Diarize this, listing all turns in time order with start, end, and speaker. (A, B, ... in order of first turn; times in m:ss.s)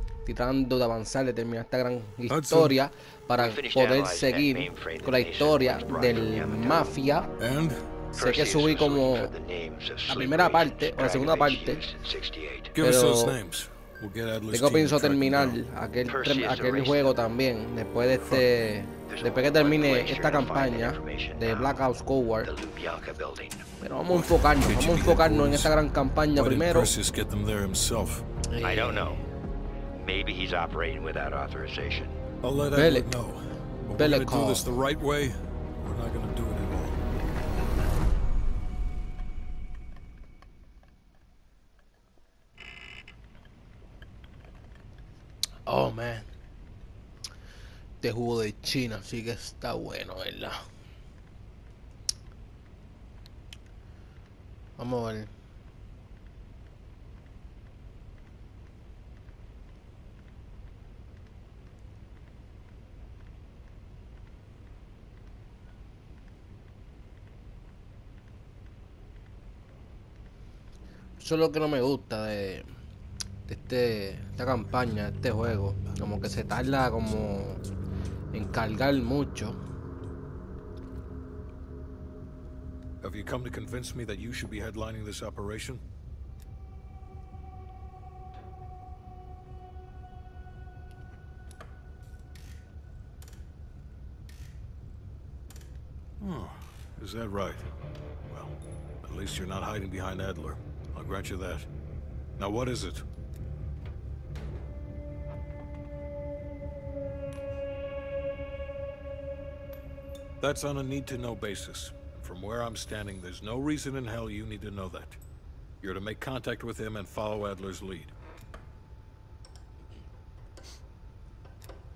0:00.3-0:07.3 A
0:02.3-0:02.8 B
0:03.3-0:07.0 C
0:07.4-0:07.8 B
0:08.2-0:12.7 C
0:08.2-0:09.3 A
0:10.1-0:11.8 A
0:12.8-0:15.6 B
0:12.8-0:13.4 A
0:14.5-0:22.5 A
0:16.0-0:17.2 C
0:19.0-0:21.9 C
0:22.4-0:23.6 C
0:23.8-0:26.9 A
0:24.1-0:25.7 B
0:26.4-0:28.3 B
0:28.5-0:29.2 A
0:28.6-0:29.2 C
0:30.0-0:32.2 C
0:32.4-0:37.0 B
0:32.8-0:33.1 A
0:34.0-0:34.7 A
0:45.7-0:46.3 A
0:48.0-0:50.6 A
0:54.8-0:55.3 A
1:11.2-1:12.7 A
1:13.5-1:17.6 A
1:18.3-1:19.6 A
1:23.0-1:25.8 B
1:36.2-1:37.7 B
1:38.3-1:41.7 B
1:42.4-1:43.0 B
1:50.4-1:55.2 B
1:55.8-1:58.1 B